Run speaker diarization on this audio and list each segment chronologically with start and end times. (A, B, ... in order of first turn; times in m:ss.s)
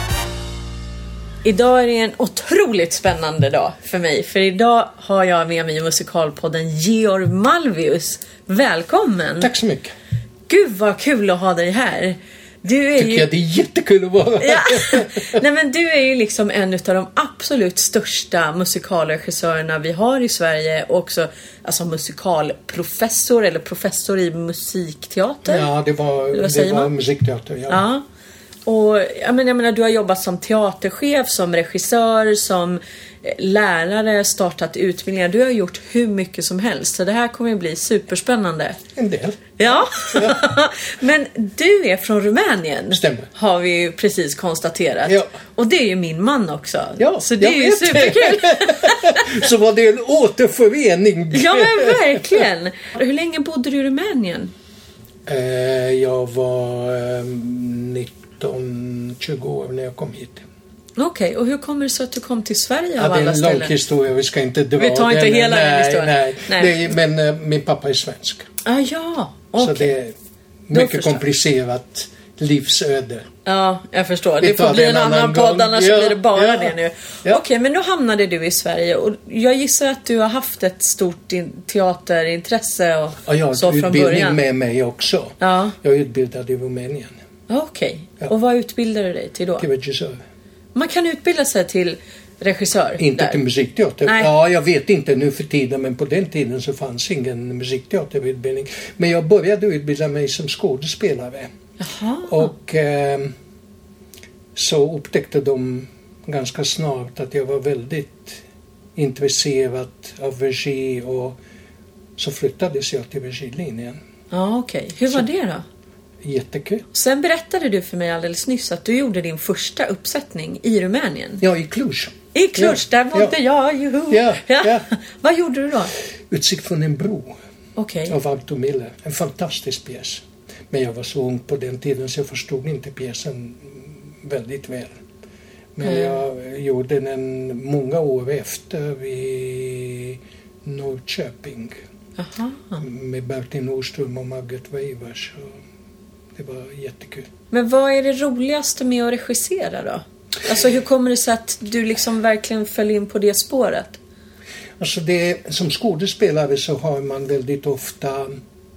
0:01.4-0:09.5 A
0:09.4-0:09.9 B
0:10.5-0:13.3 A
0:13.0-0:15.4 B
0:14.4-0:25.7 A
0:25.4-0:27.8 B
0:26.3-0:26.9 A
0:27.7-0:28.0 A
0:28.6-0:38.8 A
0:38.9-0:40.5 B
0:39.6-0:49.3 A
0:42.9-0:43.3 B
0:47.0-0:52.4 B
0:51.3-0:54.5 A
0:55.2-1:00.4 B
1:01.0-1:03.7 A
1:03.0-1:08.5 B
1:04.8-1:06.8 A
1:08.6-1:09.9 A
1:09.6-1:10.1 B
1:10.7-1:13.2 B
1:10.7-1:11.2 A
1:13.4-1:24.4 A
1:14.4-1:17.4 B
1:23.2-1:27.1 B
1:25.4-1:25.8 A
1:27.5-1:29.6 A
1:29.6-1:30.2 B
1:30.7-1:33.4 A
1:33.0-1:41.5 B
1:41.8-1:42.5 A
1:42.3-1:43.3 B
1:44.5-1:48.4 B
1:49.0-1:51.4 B
1:52.2-1:54.0 B
1:54.3-1:55.6 A
1:56.2-1:56.8 B
1:56.9-2:01.4 A
2:01.4-2:03.3 B
2:02.3-2:05.9 A
2:04.1-2:04.9 B
2:06.3-2:07.4 B
2:07.8-2:08.2 A
2:08.1-2:15.0 B
2:15.7-2:21.8 B
2:15.8-2:16.2 A
2:22.2-2:22.8 A
2:22.8-2:25.6 B
2:26.3-2:27.3 B
2:27.5-2:34.0 A
2:34.8-2:38.4 B